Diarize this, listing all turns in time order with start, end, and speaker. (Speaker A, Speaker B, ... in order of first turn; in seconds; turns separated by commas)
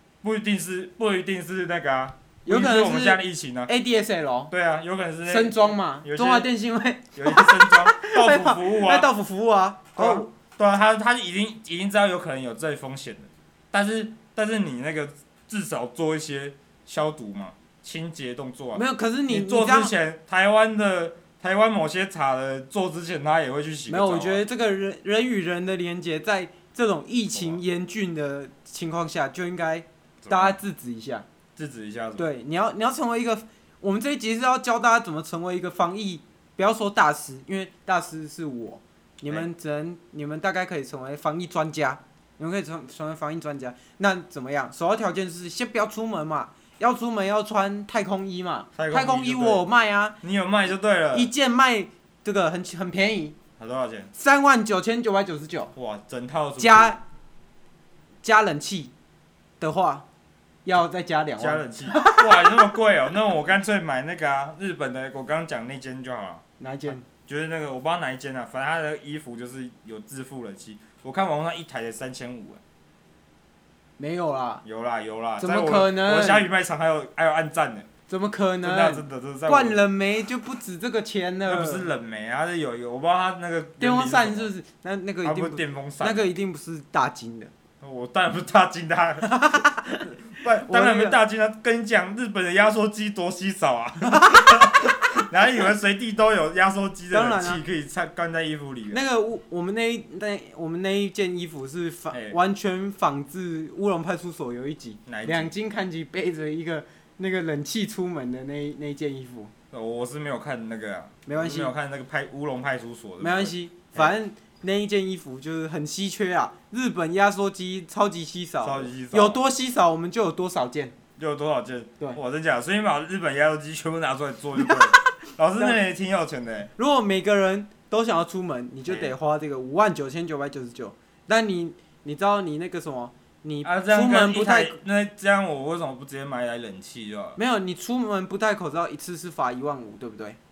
Speaker A: 0.2-3.7, Speaker B: 2.4-4.5, Speaker A: 4.5-6.5, Speaker B: 5.2-10.3, Speaker A: 7.1-9.1, Speaker A: 9.9-24.4, Speaker B: 18.7-19.9, Speaker B: 23.9-31.2, Speaker A: 27.3-27.6, Speaker A: 30.2-30.6, Speaker A: 31.6-32.3, Speaker B: 32.2-50.2, Speaker A: 48.8-49.6, Speaker A: 50.2-51.3, Speaker B: 51.1-53.4, Speaker A: 53.6-54.1, Speaker B: 54.1-55.7, Speaker A: 55.7-57.0, Speaker B: 56.6-57.0, Speaker B: 58.2-58.9, Speaker B: 59.6-60.0, Speaker B: 60.6-62.7, Speaker A: 61.4-66.4, Speaker B: 66.6-67.0, Speaker A: 67.1-72.6, Speaker B: 74.0-74.6, Speaker A: 74.6-77.9, Speaker B: 75.4-76.5, Speaker B: 78.1-81.9, Speaker A: 78.6-79.8, Speaker A: 81.5-84.5, Speaker B: 83.8-87.5, Speaker A: 85.2-86.3, Speaker A: 87.8-99.0, Speaker B: 89.2-91.2, Speaker B: 94.0-95.0, Speaker B: 97.1-97.6, Speaker B: 98.9-109.5, Speaker A: 102.1-102.3, Speaker A: 105.1-105.5, Speaker A: 109.7-114.1, Speaker B: 111.2-111.7, Speaker B: 113.2-121.0, Speaker A: 118.6-119.4, Speaker A: 121.2-126.7, Speaker B: 126.8-134.8, Speaker A: 128.9-129.1, Speaker A: 133.6-137.4, Speaker B: 137.3-140.4